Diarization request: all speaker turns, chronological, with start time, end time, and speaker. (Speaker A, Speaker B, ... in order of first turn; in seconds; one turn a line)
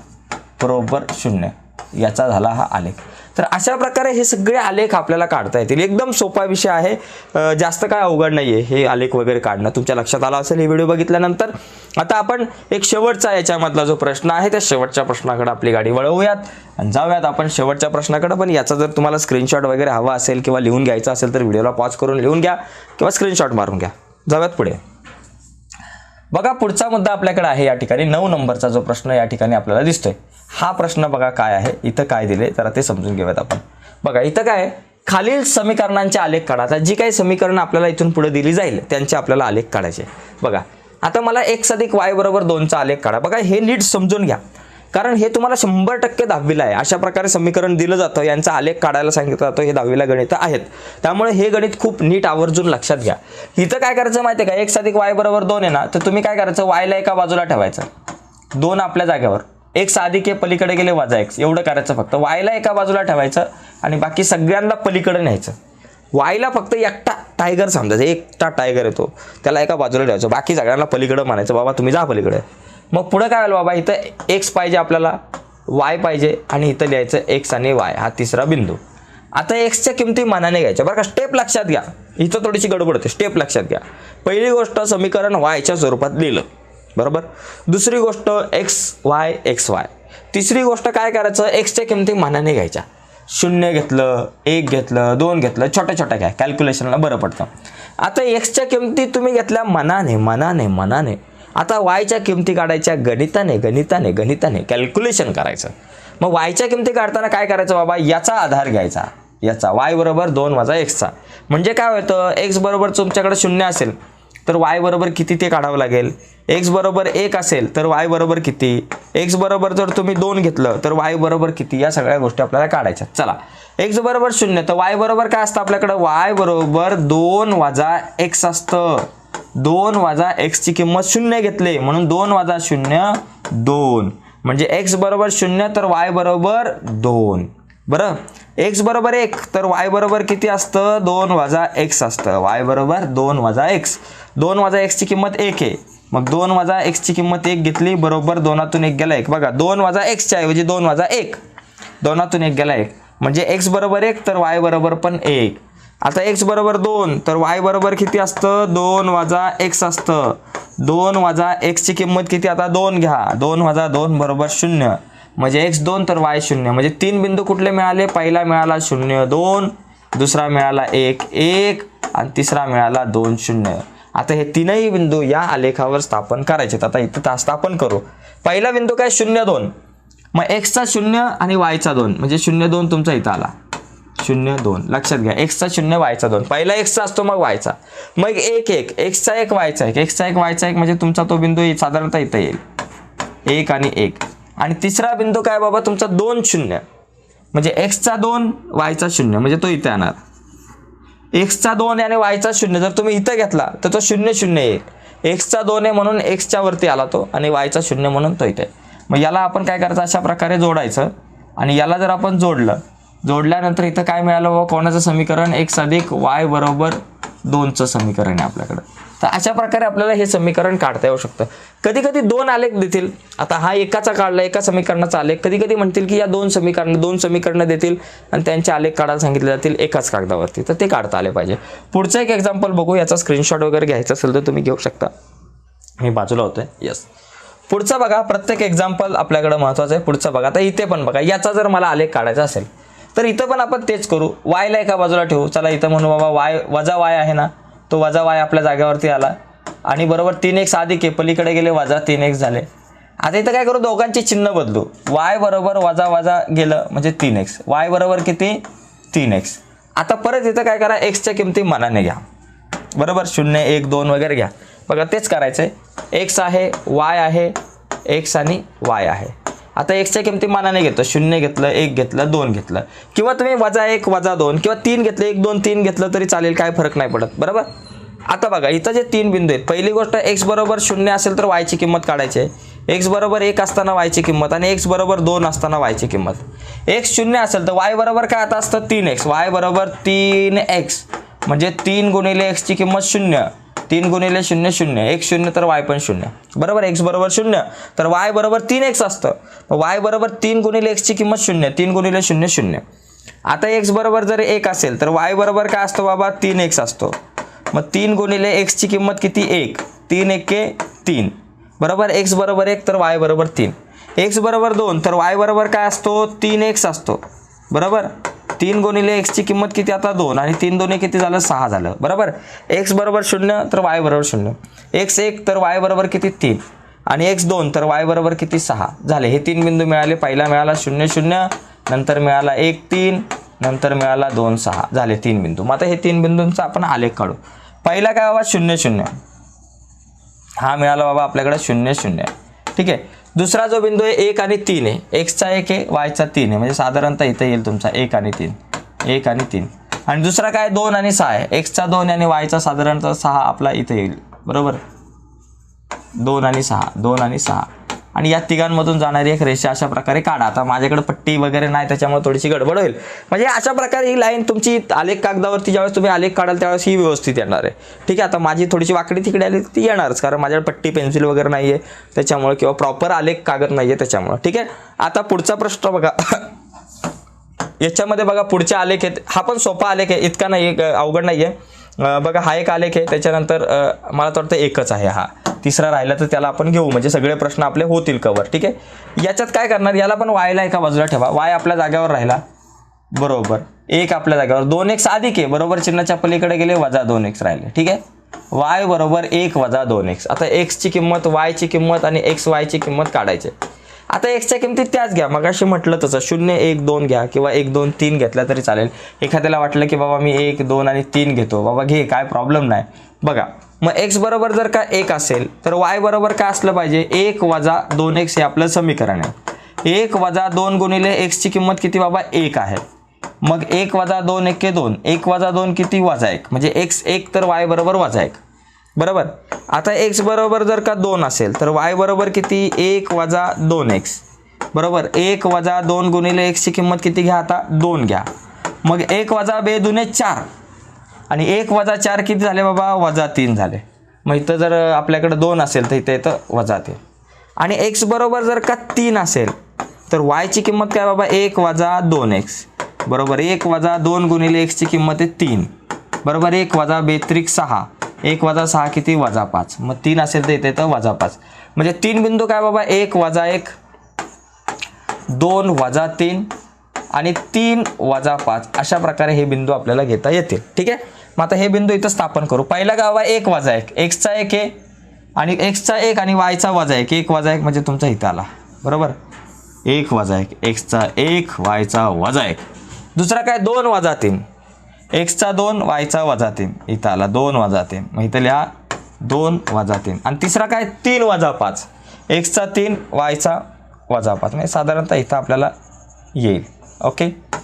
Speaker A: 0.6-24.8
Speaker A: 26.3-44.4
Speaker A: 44.9-57.9
Speaker A: 58.5-65.5
Speaker A: 66.1-75.2
Speaker A: 75.7-78.8
Speaker A: 79.3-151.4
Speaker A: 152.0-179.7
Speaker A: 180.3-183.5
Speaker A: 184.2-192.6
Speaker A: 193.5-196.8
Speaker A: 197.5-200.2
Speaker A: 201.3-235.1
Speaker A: 236.0-237.1
Speaker A: 237.7-249.4
Speaker A: 249.9-252.7
Speaker A: 253.2-262.2
Speaker A: 262.9-277.7
Speaker A: 278.3-302.8
Speaker A: 303.5-307.1
Speaker A: 307.7-339.1
Speaker A: 340.6-354.8
Speaker A: 356.2-376.5
Speaker A: 377.8-392.4
Speaker A: 393.1-403.5
Speaker A: 404.1-422.8
Speaker A: 423.4-428.4
Speaker A: 429.0-434.2
Speaker A: 434.7-438.3
Speaker A: 438.9-440.5
Speaker A: 441.3-447.0
Speaker A: 447.6-449.5
Speaker A: 450.1-455.7
Speaker A: 456.2-463.8
Speaker A: 465.3-466.5
Speaker A: 467.1-474.8
Speaker A: 475.4-479.1
Speaker A: 479.9-482.6
Speaker A: 483.2-484.4
Speaker A: 485.1-488.7
Speaker A: 489.2-495.7
Speaker A: 496.4-497.4